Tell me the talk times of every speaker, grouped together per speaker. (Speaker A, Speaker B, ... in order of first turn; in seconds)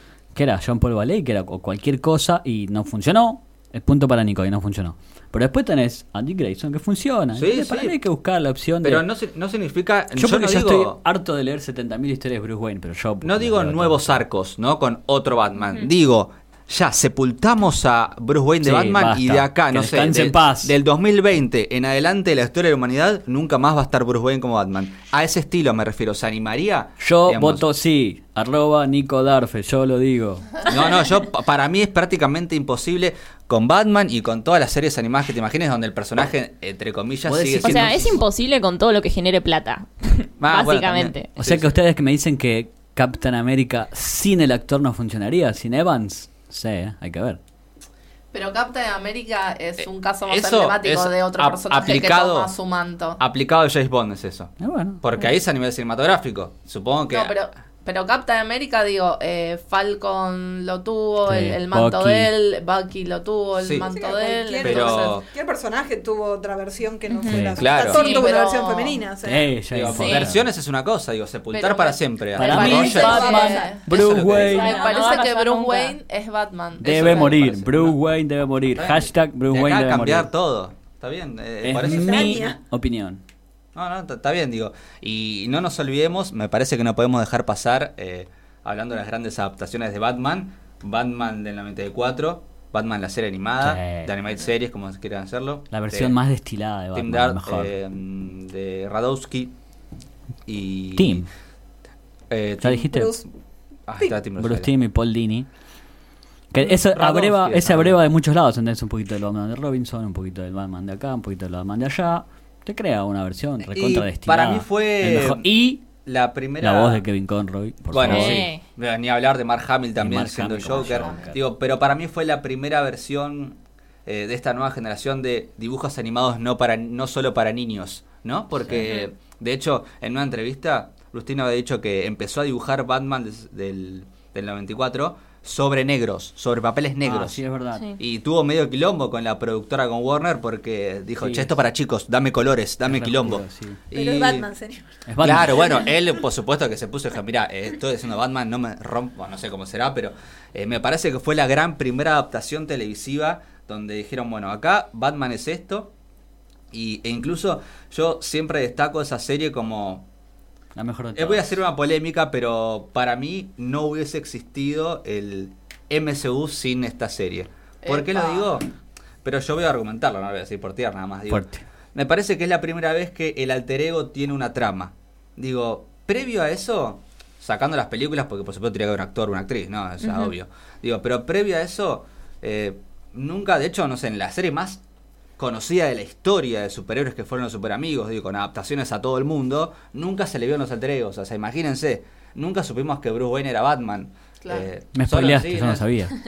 Speaker A: 0.3-9.1, 10.2-14.2, 18.6-20.7, 27.0-30.5, 37.3-38.2, 41.4-47.4, 54.6-55.0, 61.3-62.3, 67.3-67.6, 69.2-70.5, 72.4-74.7, 76.8-80.3, 81.6-83.2, 93.6-94.1, 95.7-97.7, 101.0-101.3, 102.6-103.1, 104.4-105.5, 106.5-115.8, 116.6-118.5, 120.0-121.4, 137.0-137.8, 141.2-141.5, 142.9-143.8, 145.1-145.7, 160.8-161.5, 171.3-171.7, 194.9-196.2
Speaker B: 7.4-8.0, 8.8-11.0, 13.2-27.6, 30.6-38.2, 40.4-41.7, 50.3-52.5, 53.2-57.4, 63.6-63.9, 64.6-65.3, 67.6-68.2, 69.7-74.8, 76.8-78.0, 78.7-82.5, 83.8-96.2, 97.0-99.5, 100.5-101.3, 102.3-102.9, 103.9-104.7, 106.6-108.0, 113.7-117.0, 117.9-137.4, 138.0-144.5, 145.2-155.9, 156.7-160.1, 161.2-168.7, 169.2-184.8, 185.4-195.9
Speaker C: 37.6-41.3, 67.1-68.2, 69.9-70.3, 74.6-76.0, 118.1-118.6, 128.8-129.0, 180.0-180.3
Speaker D: 48.3-53.2, 57.1-65.2, 67.6-69.0, 71.5-77.4, 167.8-168.5, 194.4-194.7
Speaker E: 63.8-69.5, 72.6-73.7, 74.5-75.1, 81.8-82.6, 102.9-103.3, 143.9-145.0